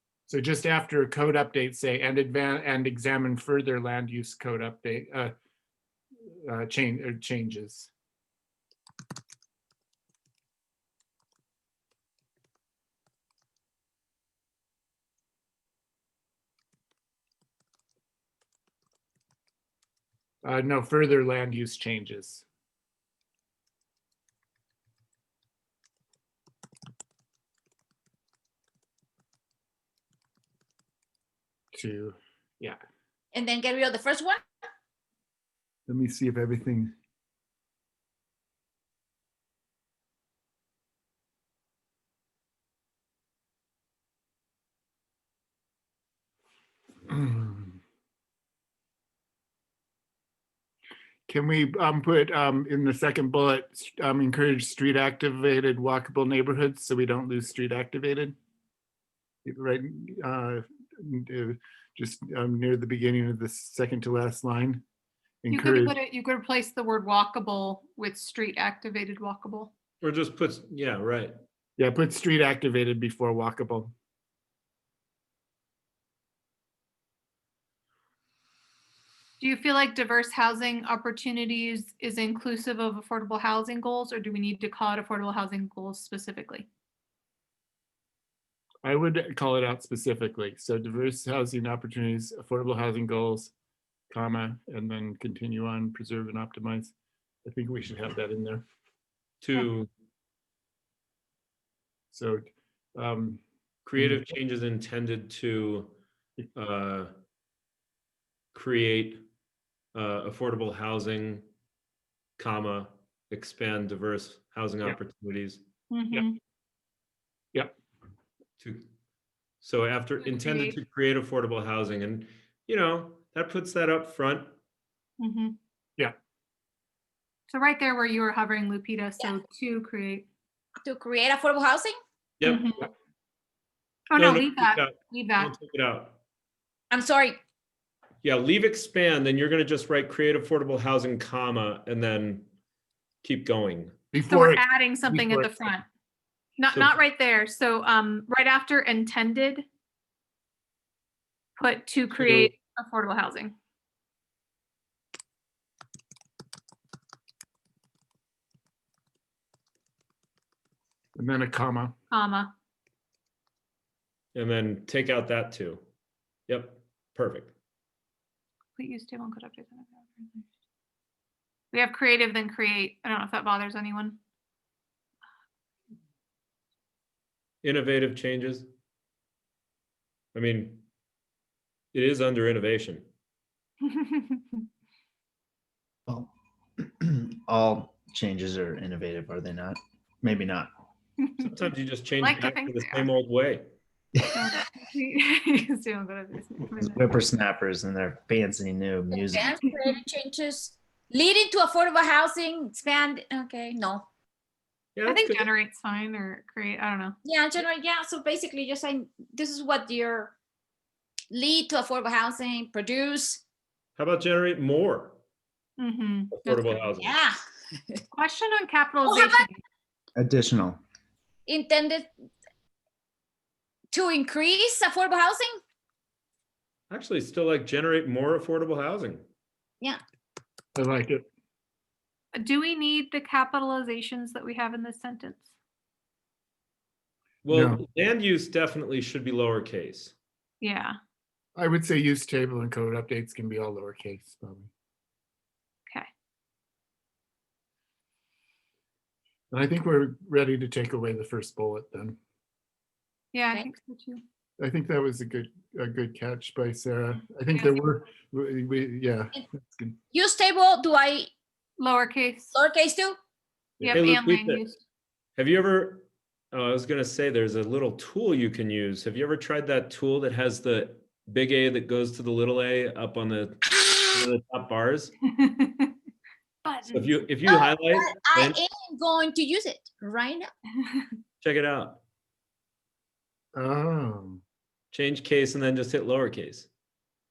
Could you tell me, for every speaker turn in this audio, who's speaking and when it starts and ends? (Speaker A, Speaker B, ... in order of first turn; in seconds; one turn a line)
Speaker A: 0.3-5.3
Speaker A: 6.4-7.9
Speaker A: 20.4-22.4
Speaker A: 31.7-32.8
Speaker B: 33.3-34.4
Speaker A: 35.9-36.9
Speaker A: 47.1-47.8
Speaker A: 51.3-58.4
Speaker A: 59.4-64.8
Speaker A: 65.4-65.9
Speaker C: 65.5-69.7
Speaker D: 70.0-71.3
Speaker A: 71.8-73.9
Speaker C: 79.4-86.7
Speaker A: 88.8-93.5
Speaker A: 94.1-96.9
Speaker A: 97.4-98.6
Speaker D: 99.4-99.9
Speaker A: 102.1-103.4
Speaker D: 103.8-105.9
Speaker D: 106.5-107.1
Speaker D: 108.5-109.2
Speaker D: 109.9-111.5
Speaker D: 112.4-115.6
Speaker C: 115.9-116.4
Speaker D: 118.6-118.9
Speaker D: 119.6-124.5
Speaker C: 120.2-120.8
Speaker C: 125.2-125.6
Speaker C: 127.5-130.3
Speaker B: 130.8-131.9
Speaker D: 132.4-132.7
Speaker C: 132.4-132.9
Speaker C: 134.1-135.5
Speaker D: 134.2-136.2
Speaker B: 136.9-137.4
Speaker D: 138.2-142.5
Speaker D: 143.2-144.0
Speaker A: 144.1-145.8
Speaker C: 144.3-145.8
Speaker C: 146.6-149.7
Speaker C: 151.6-153.5
Speaker A: 152.2-152.5
Speaker A: 161.2-161.9
Speaker C: 162.1-162.5
Speaker D: 164.3-165.8
Speaker D: 166.5-167.5
Speaker C: 168.8-170.5
Speaker C: 171.7-174.2
Speaker D: 177.6-178.7
Speaker D: 180.3-180.8
Speaker D: 181.9-183.1
Speaker C: 183.8-184.7
Speaker E: 186.1-190.7
Speaker C: 191.2-191.5
Speaker D: 191.4-193.7
Speaker C: 192.2-193.1
Speaker E: 194.1-194.5
Speaker C: 194.3-197.1
Speaker E: 196.8-199.6
Speaker B: 199.2-204.1
Speaker C: 199.6-200.0
Speaker D: 204.9-205.5
Speaker C: 205.1-207.1
Speaker B: 207.2-210.3
Speaker B: 211.3-213.4
Speaker D: 213.9-215.2
Speaker C: 215.8-216.4
Speaker D: 216.3-217.2
Speaker B: 216.5-218.0
Speaker C: 218.1-219.6
Speaker B: 219.0-219.5
Speaker E: 220.1-220.8
Speaker B: 221.5-222.1
Speaker B: 223.9-225.6
Speaker D: 226.9-229.2
Speaker A: 230.8-231.2
Speaker C: 232.3-235.4
Speaker D: 237.4-240.1
Speaker A: 237.5-237.8
Speaker C: 240.6-240.9
Speaker A: 241.6-244.7
Speaker A: 249.5-252.2
Speaker C: 253.3-254.2
Speaker A: 254.6-259.9
Speaker C: 257.5-257.8
Speaker B: 260.1-261.3
Speaker C: 261.8-262.5
Speaker B: 262.5-263.2
Speaker A: 263.8-264.1
Speaker C: 263.8-264.8
Speaker D: 263.9-264.6
Speaker D: 265.4-275.1
Speaker C: 275.3-275.9
Speaker C: 276.6-277.2
Speaker D: 276.9-278.6
Speaker B: 277.4-280.5
Speaker C: 280.8-281.1
Speaker D: 281.4-282.0
Speaker A: 283.5-284.4
Speaker D: 284.9-286.7